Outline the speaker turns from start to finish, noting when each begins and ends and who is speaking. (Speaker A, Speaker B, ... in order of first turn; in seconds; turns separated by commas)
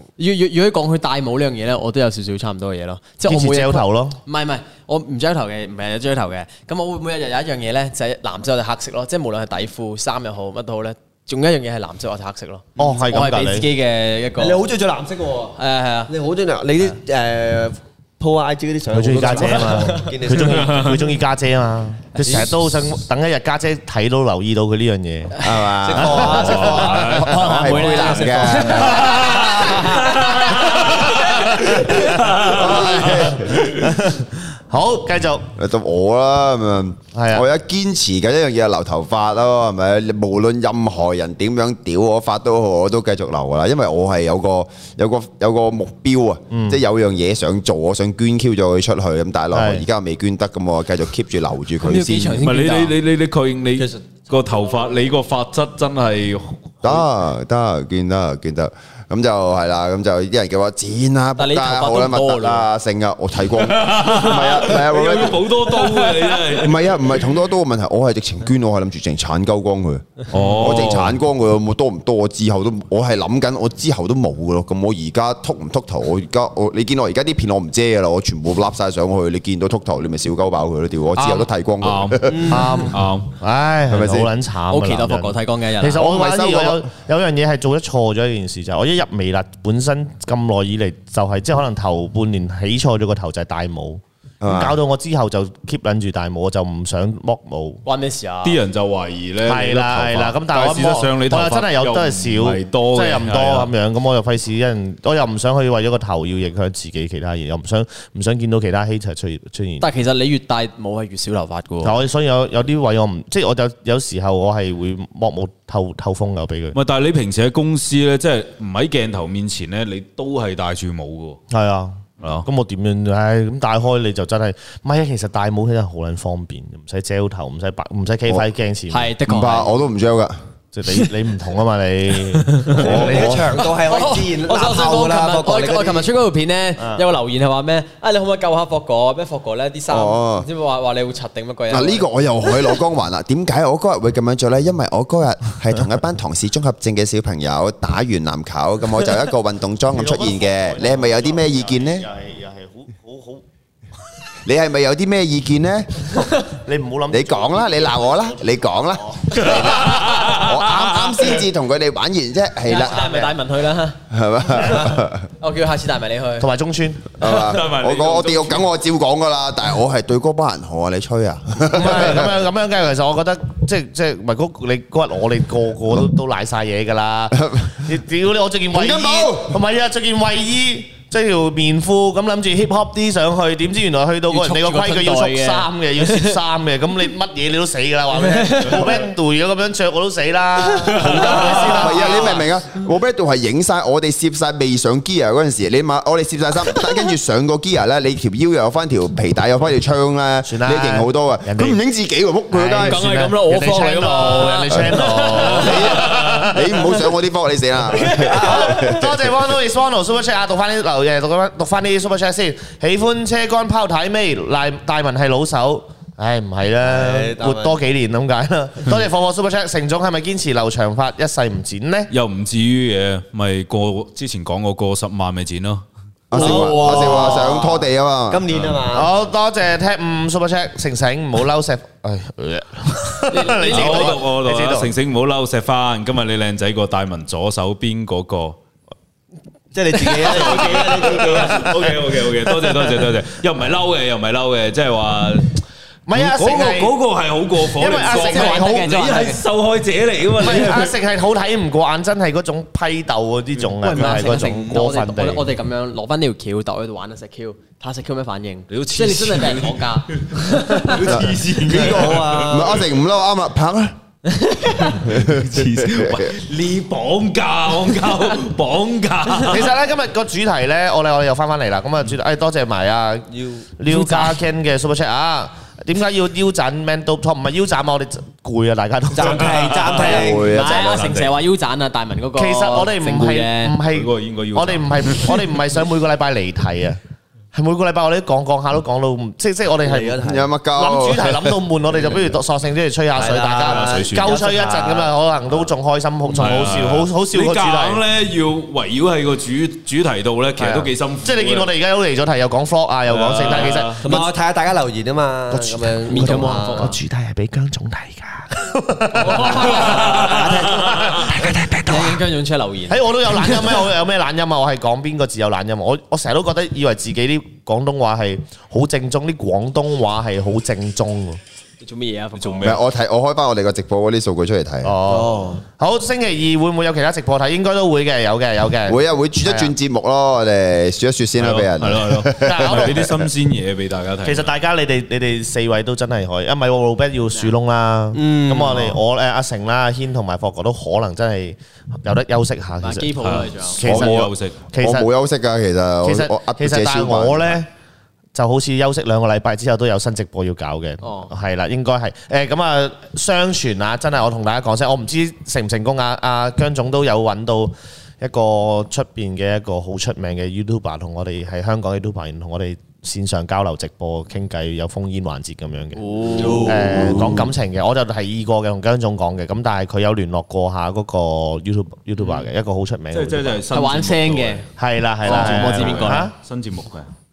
Speaker A: 0.2-14.6, Speaker B: 3.2-4.2, Speaker B: 12.8-13.7, Speaker C: 14.4-20.9, Speaker A: 15.6-16.1, Speaker B: 18.9-25.4, Speaker A: 19.7-20.0, Speaker D: 20.4-20.9, Speaker A: 22.2-22.5, Speaker A: 25.4-30.7, Speaker E: 25.4-29.3, Speaker C: 25.8-27.2, Speaker D: 26.4-27.6, Speaker C: 27.8-28.2, Speaker D: 28.6-33.3, Speaker B: 30.7-35.5, Speaker E: 32.4-33.7, Speaker E: 35.5-52.4, Speaker B: 37.1-37.4, Speaker B: 46.5-46.8, Speaker B: 49.5-49.8, Speaker A: 51.8-52.9, Speaker D: 52.4-57.0, Speaker C: 53.8-54.0, Speaker E: 56.8-65.4, Speaker A: 61.4-62.7, Speaker D: 63.6-66.9, Speaker A: 65.8-66.0, Speaker E: 66.6-82.6, Speaker D: 70.3-71.2, Speaker B: 81.2-81.5, Speaker D: 81.8-83.3, Speaker B: 82.5-97.8, Speaker E: 83.9-84.3, Speaker A: 84.7-86.0, Speaker E: 85.9-86.9, Speaker E: 94.4-94.8, Speaker A: 97.8-98.6, Speaker D: 98.4-103.7, Speaker B: 99.5-109.8, Speaker A: 109.8-112.0, Speaker B: 111.8-116.8, Speaker D: 116.7-121.4, Speaker B: 121.5-129.1, Speaker D: 122.2-122.5, Speaker A: 128.9-129.7, Speaker E: 129.2-130.4, Speaker B: 130.7-132.8, Speaker E: 132.7-133.5, Speaker C: 132.8-136.1, Speaker A: 133.7-142.1, Speaker E: 139.9-140.5, Speaker E: 141.7-152.1, Speaker B: 149.9-153.4, Speaker E: 154.4-156.1, Speaker B: 156.7-159.6, Speaker E: 157.1-163.3, Speaker D: 159.3-161.2, Speaker A: 162.6-164.0, Speaker E: 164.1-165.2, Speaker A: 165.4-166.5, Speaker B: 166.4-167.1, Speaker E: 167.2-172.3, Speaker D: 167.4-168.7, Speaker B: 171.7-192.4, Speaker E: 177.4-177.6, Speaker E: 178.7-179.6, Speaker A: 184.3-186.4, Speaker A: 188.2-189.0, Speaker D: 190.9-191.7, Speaker E: 191.6-203.0, Speaker B: 200.4-201.8, Speaker B: 202.5-206.6, Speaker A: 202.8-206.2, Speaker E: 205.5-209.3, Speaker A: 207.9-208.8, Speaker B: 208.4-222.1, Speaker C: 216.8-217.8, Speaker D: 222.1-225.8, Speaker E: 226.3-228.4, Speaker C: 226.3-229.1, Speaker D: 228.5-228.8, Speaker B: 228.9-234.9, Speaker A: 233.3-234.2, Speaker D: 233.7-238.6, Speaker C: 239.7-241.8, Speaker D: 240.0-250.9, Speaker B: 246.1-246.9, Speaker B: 247.8-249.0, Speaker A: 248.0-249.4, Speaker B: 250.4-255.5, Speaker A: 253.8-261.1, Speaker D: 253.8-254.4, Speaker D: 258.7-262.7, Speaker E: 261.1-263.9, Speaker C: 261.6-262.8, Speaker A: 264.3-264.9, Speaker D: 265.0-269.7, Speaker E: 265.1-266.3, Speaker B: 269.5-273.3, Speaker C: 273.3-273.7, Speaker B: 273.8-280.1, Speaker A: 273.9-274.3, Speaker C: 279.1-280.6, Speaker E: 280.0-280.9, Speaker A: 280.4-283.8, Speaker D: 280.8-281.3, Speaker B: 282.4-287.0, Speaker D: 283.9-285.4, Speaker B: 287.5-290.2, Speaker C: 289.8-290.5, Speaker E: 290.2-291.6, Speaker B: 290.7-298.0, Speaker C: 293.1-295.1, Speaker D: 293.6-294.3, Speaker D: 296.3-301.7, Speaker C: 296.4-296.6, Speaker B: 300.6-304.3, Speaker D: 303.1-304.0, Speaker C: 304.0-306.9, Speaker B: 305.5-312.2, Speaker A: 306.1-306.9, Speaker A: 309.2-310.2, Speaker C: 309.5-311.4, Speaker D: 309.9-311.1, Speaker A: 311.7-313.9, Speaker B: 312.9-321.4, Speaker A: 321.8-322.7, Speaker D: 322.4-322.8, Speaker E: 322.6-324.9, Speaker B: 324.8-329.7, Speaker C: 325.1-325.6, Speaker E: 328.9-333.2, Speaker D: 331.4-334.5, Speaker B: 332.4-332.9, Speaker B: 334.2-343.1, Speaker C: 338.1-339.0, Speaker A: 342.8-343.8, Speaker D: 343.2-344.6, Speaker B: 343.8-345.1, Speaker E: 343.8-347.6, Speaker B: 346.0-347.7, Speaker B: 348.3-366.0, Speaker A: 351.0-351.3, Speaker A: 365.9-367.1, Speaker C: 366.4-367.3, Speaker B: 366.6-373.6, Speaker D: 373.1-374.6, Speaker A: 373.7-374.7, Speaker B: 374.8-376.3, Speaker A: 375.2-376.3, Speaker D: 375.2-377.1